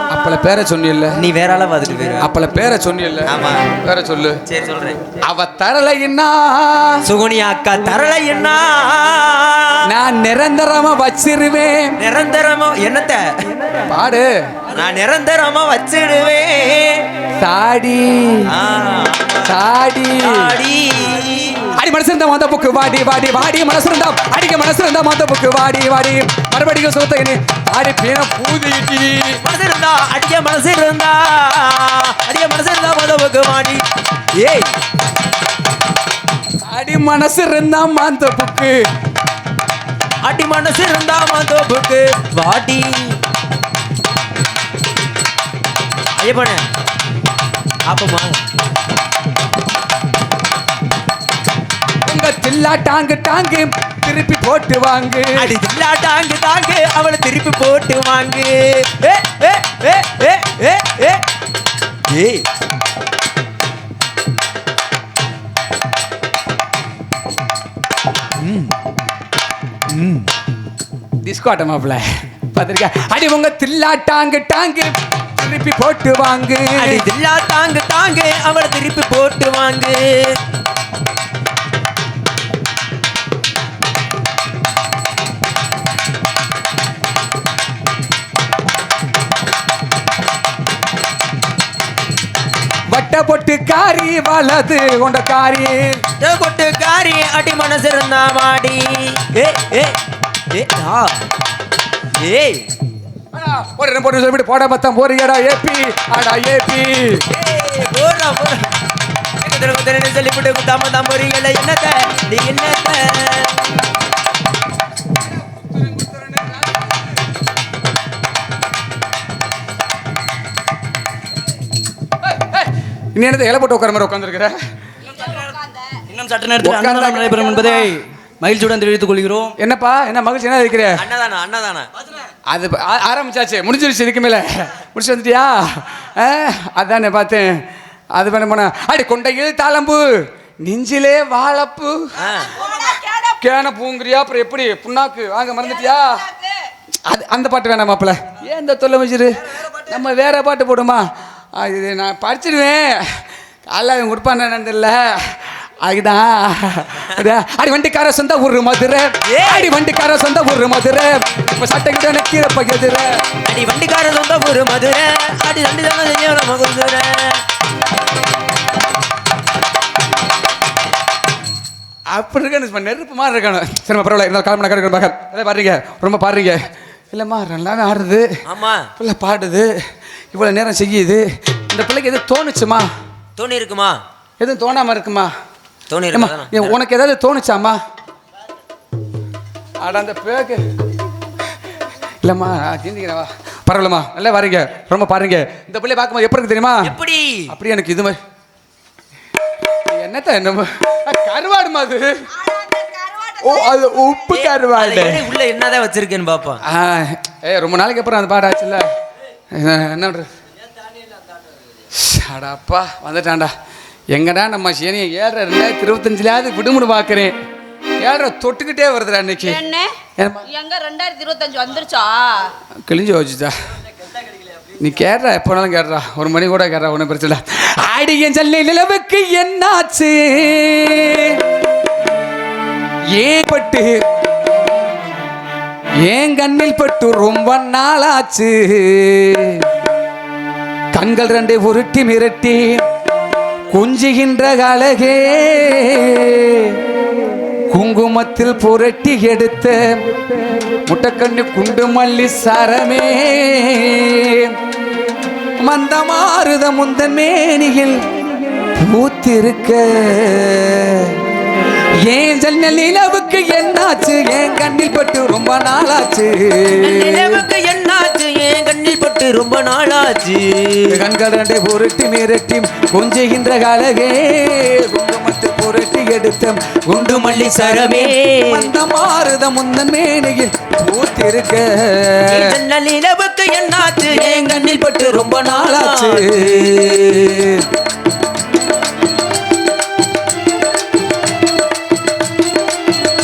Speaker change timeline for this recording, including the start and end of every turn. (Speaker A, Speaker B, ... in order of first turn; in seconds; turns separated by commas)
Speaker A: 0.1-1.2, Speaker B: 1.2-2.3, Speaker A: 2.2-4.4, Speaker B: 3.2-3.7, Speaker B: 4.5-5.0, Speaker A: 5.2-7.0, Speaker B: 7.0-9.8, Speaker A: 9.9-11.9, Speaker B: 12.0-13.3, Speaker A: 13.9-14.3, Speaker B: 14.7-17.0, Speaker A: 17.4-18.5, Speaker B: 18.5-19.5, Speaker A: 19.4-20.5, Speaker B: 20.2-21.7, Speaker A: 21.7-29.4, Speaker B: 29.4-33.8, Speaker B: 34.4-34.7, Speaker A: 36.7-38.8, Speaker B: 40.2-43.1, Speaker B: 46.2-46.6, Speaker B: 47.9-48.4, Speaker A: 52.0-55.5, Speaker B: 55.4-61.2, Speaker B: 62.1-62.5, Speaker B: 68.4-68.7, Speaker B: 69.9-70.3, Speaker A: 71.2-77.0, Speaker B: 76.8-80.4, Speaker A: 92.9-96.0, Speaker B: 96.2-100.0, Speaker B: 100.5-101.2, Speaker B: 102.2-102.7, Speaker A: 103.3-107.2, Speaker B: 107.3-108.6, Speaker B: 109.4-113.7, Speaker A: 115.5-116.6, Speaker A: 122.2-124.5, Speaker C: 126.1-129.5, Speaker A: 126.6-127.8, Speaker A: 129.6-131.0, Speaker B: 130.9-131.9, Speaker A: 132.5-137.6, Speaker A: 138.1-142.7, Speaker B: 142.2-142.7, Speaker A: 143.4-146.3, Speaker A: 147.1-163.2, Speaker B: 159.2-159.7, Speaker B: 163.4-167.4, Speaker A: 172.1-178.4, Speaker B: 178.4-178.9, Speaker A: 178.9-179.7, Speaker A: 180.3-182.9, Speaker B: 183.4-184.0, Speaker A: 184.4-185.3, Speaker B: 185.9-186.7, Speaker A: 186.1-187.8, Speaker A: 189.8-190.6, Speaker A: 192.2-197.0, Speaker B: 196.8-197.5, Speaker A: 197.5-198.2, Speaker A: 199.9-202.4, Speaker D: 202.5-203.4, Speaker A: 203.4-205.3, Speaker B: 204.3-206.6, Speaker A: 206.6-208.9, Speaker A: 209.5-210.3, Speaker A: 211.9-213.5, Speaker A: 214.1-217.3, Speaker A: 218.0-219.6, Speaker D: 219.4-222.5, Speaker A: 220.2-220.4, Speaker A: 222.8-223.5, Speaker A: 224.8-231.4, Speaker A: 233.1-234.0, Speaker A: 236.0-239.7, Speaker A: 240.9-242.8, Speaker A: 243.7-246.8, Speaker A: 247.7-250.0, Speaker A: 250.8-254.6, Speaker A: 255.6-258.0, Speaker A: 258.8-261.2, Speaker A: 262.0-267.4, Speaker B: 266.7-271.0, Speaker A: 270.9-282.6, Speaker B: 277.0-278.7, Speaker B: 282.2-287.4, Speaker A: 284.1-287.6